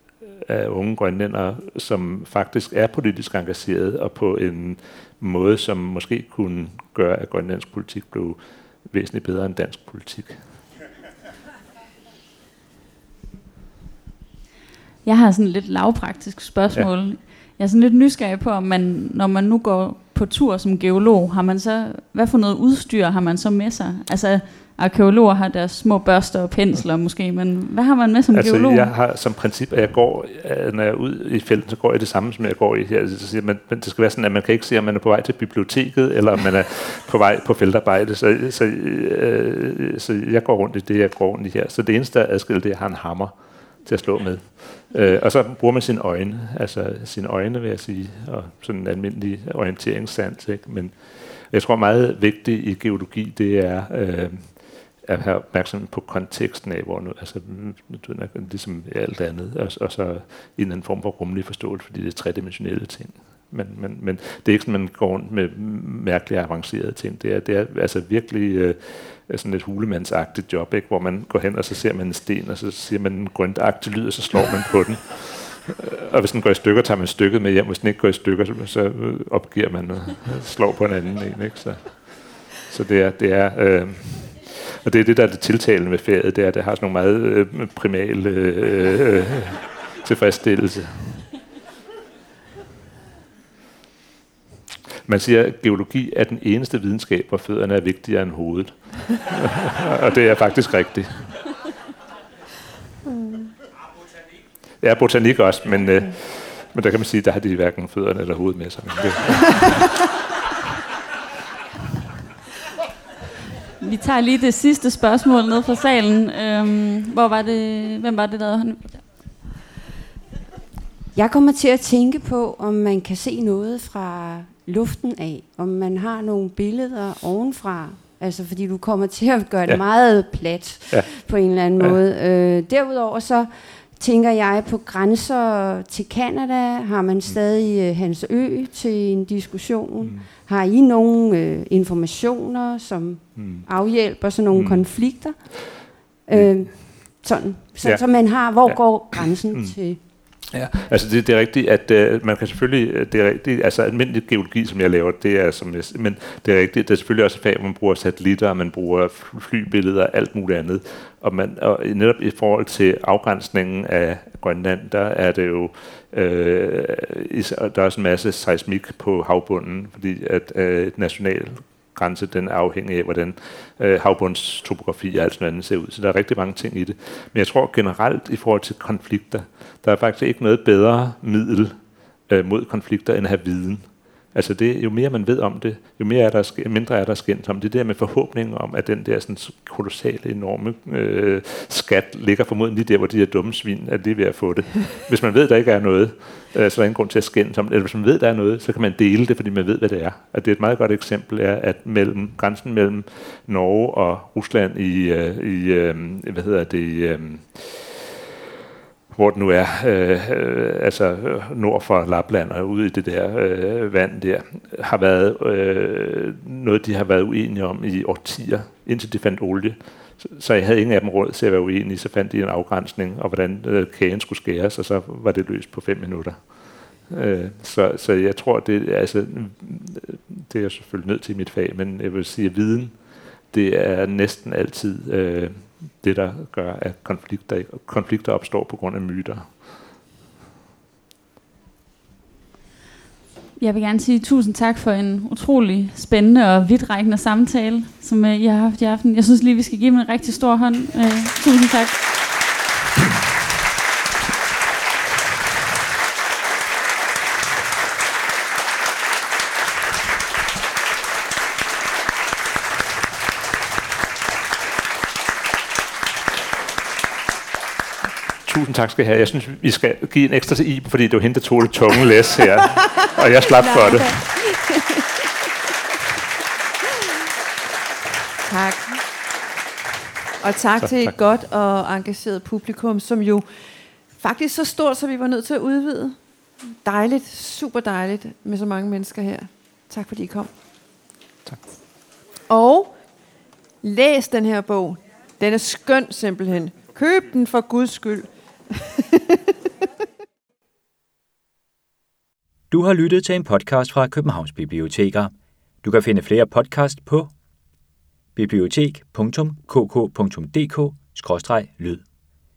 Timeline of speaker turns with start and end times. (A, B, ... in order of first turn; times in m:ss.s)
0:00.2-0:10.4 A
0:15.0-0:28.9 B
0:28.3-1:31.2 A
1:35.0-1:41.5 A
1:43.1-1:43.5 C
1:44.8-1:49.9 A
1:53.8-1:59.1 B
2:01.1-2:30.0 D
2:09.6-2:10.1 A
2:20.0-2:20.3 A
2:23.3-2:23.7 A
2:24.5-2:25.6 A
2:26.3-2:26.7 A
2:27.8-3:28.1 A
3:29.1-3:59.7 A
4:03.6-4:12.3 B
4:28.4-4:34.2 A
4:33.6-4:35.3 C
4:38.4-4:39.0 C
4:40.4-4:46.2 C
4:40.8-4:41.1 A
4:46.7-4:50.5 C
4:52.5-4:53.0 C
4:53.8-4:59.4 C
5:02.7-5:07.3 E
5:08.4-5:12.0 E